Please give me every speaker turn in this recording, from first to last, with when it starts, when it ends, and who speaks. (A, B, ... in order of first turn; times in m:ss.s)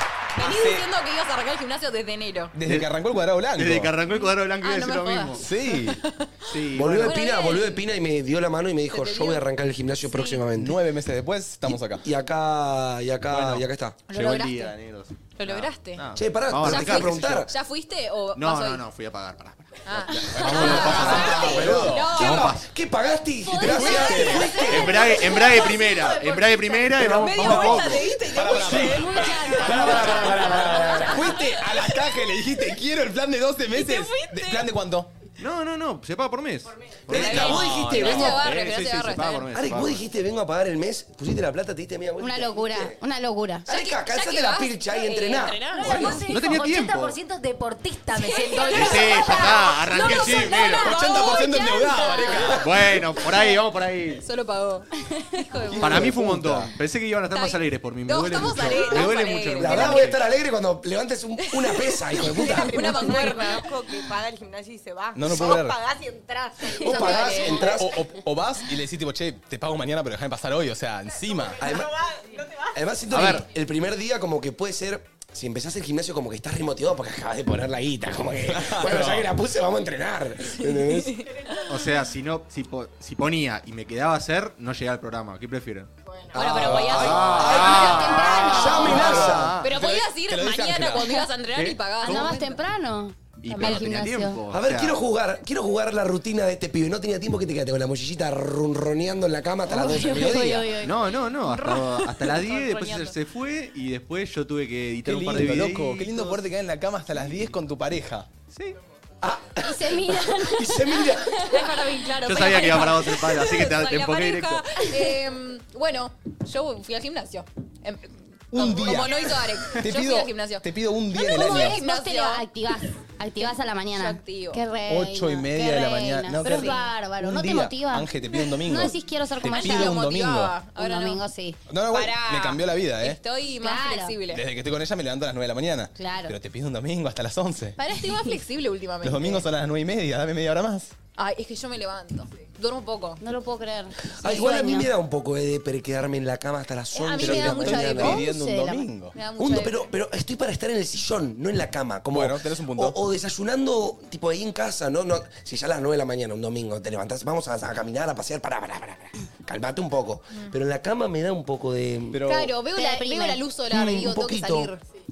0:00.4-0:02.6 A
0:00.4-0:00.9 B
0:02.5-0:04.0 B
0:02.6-0:05.6 C
0:04.2-0:07.8 A
0:05.4-0:06.0 B
0:06.4-0:07.2 C
0:06.7-0:10.8 D
0:08.9-0:09.5 A
0:10.1-0:10.4 A
0:10.6-0:12.1 B
0:11.6-0:14.0 D
0:13.3-0:17.5 C
0:14.1-0:14.8 A
0:15.4-0:16.0 A
0:16.2-0:17.5 D
0:16.6-0:18.8 A
0:18.4-0:22.7 C
0:19.8-0:22.6 A
0:20.3-0:22.4 B
0:20.9-0:25.3 D
0:23.6-0:24.6 B
0:23.6-0:31.9 A
0:23.8-0:24.6 E
0:24.6-0:28.8 C
0:26.4-0:26.8 F
0:27.0-0:27.5 D
0:27.3-0:35.1 B
0:28.9-0:31.0 E
0:29.6-0:31.2 D
0:33.7-0:34.7 A
0:35.4-0:40.1 C
0:37.1-0:38.5 D
0:37.1-0:39.5 A
0:39.5-0:43.0 D
0:42.2-0:43.7 E
0:43.7-0:45.8 D
0:43.7-0:46.2 A
0:45.8-0:49.8 G
0:45.9-0:46.2 E
0:46.3-0:47.2 C
0:48.2-0:52.6 A
0:48.7-0:51.0 C
0:50.6-0:52.7 B
0:52.5-0:54.2 C
0:53.2-0:53.6 A
0:54.2-0:56.1 A
0:55.7-0:56.7 B
0:55.8-1:00.2 C
0:57.3-1:00.1 A
0:59.6-1:03.1 D
1:01.5-1:03.7 A
1:02.4-1:07.8 F
1:05.1-1:05.8 B
1:06.6-1:08.0 D
1:06.7-1:07.8 A
1:07.6-1:11.6 B
1:11.6-1:12.0 D
1:11.6-1:12.8 F
1:12.7-1:21.2 D
1:13.1-1:13.4 C
1:18.5-1:19.3 B
1:20.6-1:21.7 A
1:21.7-1:25.9 C
1:26.3-1:29.6 D
1:26.3-1:32.6 A
1:26.6-1:29.7 C
1:26.8-1:28.0 B
1:27.4-1:29.0 E
1:29.0-1:31.2 B
1:31.5-1:32.4 C
1:32.0-1:34.4 E
1:33.4-1:35.0 C
1:33.5-1:33.9 A
1:34.5-1:40.8 D
1:39.7-1:43.1 E
1:40.8-1:46.5 C
1:45.0-1:48.3 B
1:47.1-1:47.5 C
1:48.5-1:48.8 C
1:49.2-1:51.5 D
1:49.6-1:51.7 E
1:51.4-2:00.7 A
1:52.2-1:54.8 C
1:58.5-2:01.8 B
2:01.1-2:10.0 E
2:01.2-2:02.4 A
2:03.9-2:04.6 A
2:04.9-2:10.6 B
2:06.4-2:06.9 A
2:09.4-2:11.2 A
2:10.8-2:11.6 E
2:11.7-2:13.2 B
2:11.9-2:14.4 A
2:13.6-2:14.2 E
2:14.3-2:17.8 B
2:16.0-2:16.4 E
2:17.8-2:19.5 A
2:19.0-2:20.9 B
2:21.2-2:23.2 A
2:23.2-2:24.9 E
2:24.2-2:28.2 D
2:26.9-2:28.2 A
2:27.2-2:29.2 B
2:27.9-2:28.9 E
2:29.1-2:29.9 A
2:29.4-2:42.2 D
2:32.1-2:33.0 B
2:42.1-2:42.6 B
2:42.2-2:44.8 A
2:42.7-2:43.4 E
2:43.7-2:44.7 D